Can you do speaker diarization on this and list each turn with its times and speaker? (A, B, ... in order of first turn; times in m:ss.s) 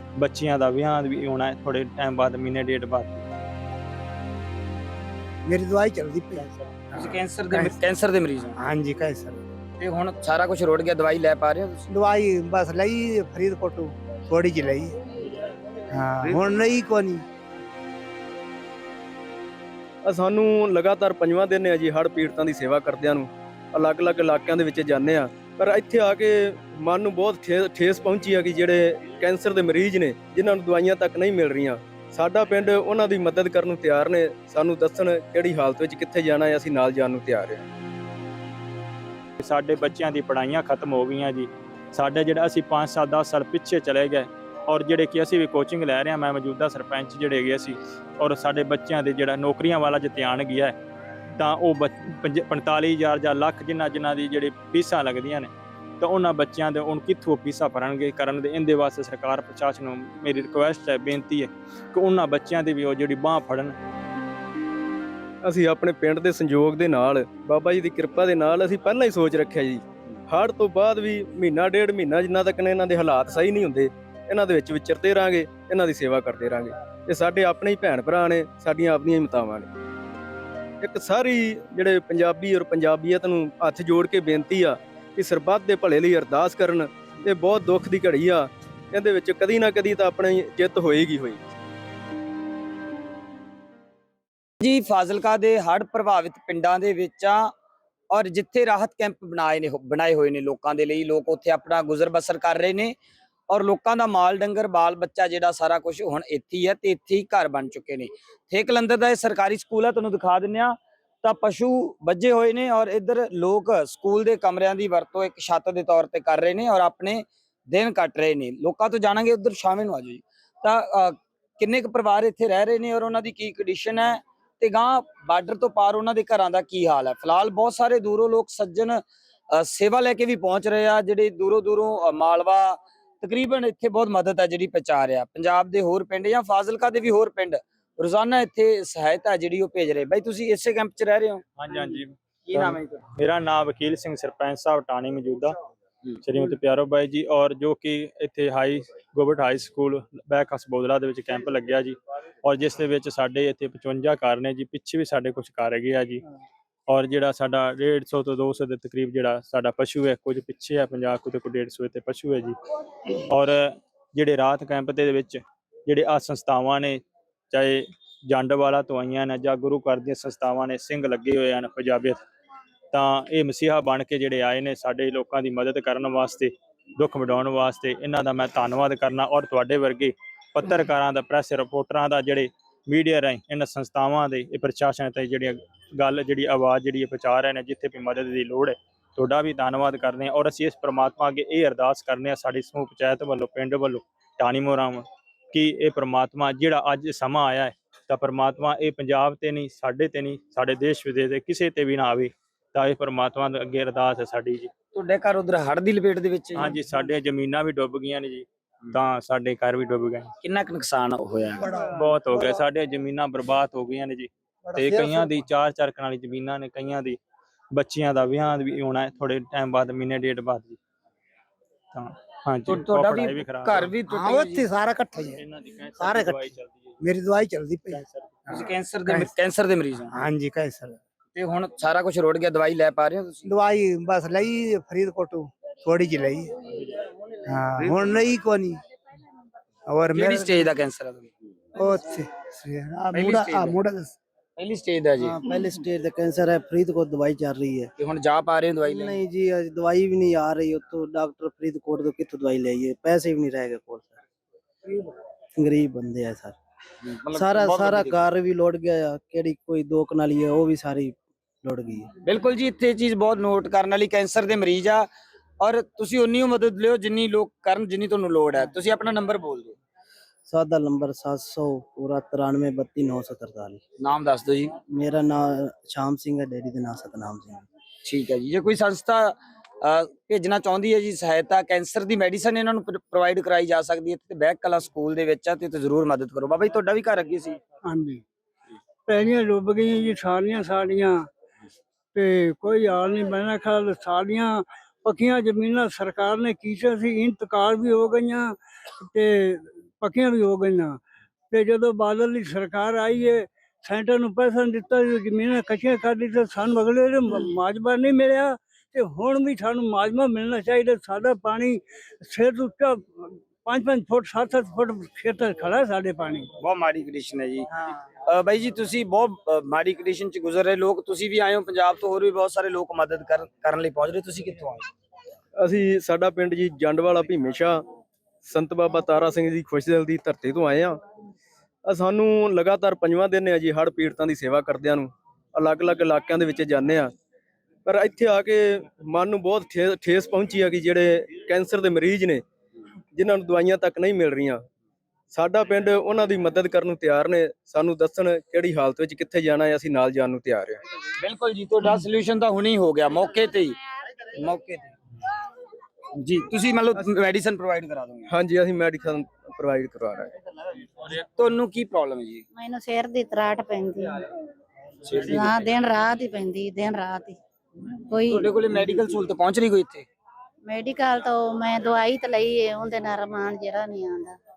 0:00.2-0:03.2 A
0:05.5-0:07.8 B
0:06.9-0:08.6 C
0:08.6-0:09.4 B
0:09.8-0:11.8 C
0:11.9-0:15.0 B
0:15.9-0:17.2 B
0:16.2-0:16.5 C
0:20.0-0:37.6 D
0:39.4-0:50.7 A
0:51.4-1:03.7 A
1:05.4-1:19.7 D
1:20.8-1:31.4 D
1:34.6-1:37.5 C
1:38.1-1:43.0 C
1:43.5-2:23.0 C
2:21.6-2:25.5 A
2:26.2-2:36.2 A
2:36.9-2:42.6 A
2:43.3-2:52.2 A
2:52.9-3:24.7 A
3:25.0-3:26.8 C
3:26.6-3:30.3 A
3:30.4-3:31.6 C
3:31.6-3:32.6 B
3:31.8-3:37.2 A
3:34.7-3:35.3 B
3:37.7-3:40.8 A
3:41.9-3:43.9 A
3:42.7-3:44.7 C
3:44.1-3:45.4 B
3:45.2-3:47.0 A
3:46.0-3:46.5 B
3:47.0-3:48.0 B
3:47.9-3:48.4 A
3:48.5-3:50.2 C
3:49.0-3:49.3 B
3:50.1-3:51.0 B
3:51.3-3:53.5 C
3:53.4-3:56.5 B
3:57.5-3:58.8 B
3:57.8-3:58.2 C
3:59.9-4:00.7 B
4:00.1-4:01.3 C
4:01.8-4:04.2 B
4:03.1-4:03.8 C
4:04.6-4:05.4 C
4:05.2-4:07.9 E
4:08.0-4:09.2 C
4:08.8-4:14.2 E
4:15.6-4:16.6 E
4:17.0-4:18.3 C
4:17.3-4:22.1 E
4:22.2-4:25.1 C
4:25.6-4:29.8 C
4:30.5-4:33.8 E
4:34.0-4:34.8 C
4:34.9-4:37.7 E
4:38.0-4:47.6 C
4:47.9-4:48.2 F
4:49.1-4:51.3 F
4:52.2-4:58.5 F
4:59.1-5:01.0 F
5:01.5-5:16.5 F
5:16.6-5:17.7 C
5:18.3-5:24.9 C
5:25.6-5:27.8 D
5:28.4-5:31.0 D
5:31.9-5:37.1 D
5:37.9-5:42.4 D
5:43.1-5:44.6 D
5:45.3-5:50.8 D
5:51.2-5:54.9 C
5:56.2-5:58.3 C
5:58.3-6:00.3 D
6:01.0-6:02.4 C
6:02.5-6:04.3 G
6:05.1-6:05.7 C
6:05.1-6:07.4 G
6:08.0-6:08.5 G
6:08.3-6:10.1 C
6:10.7-6:14.4 G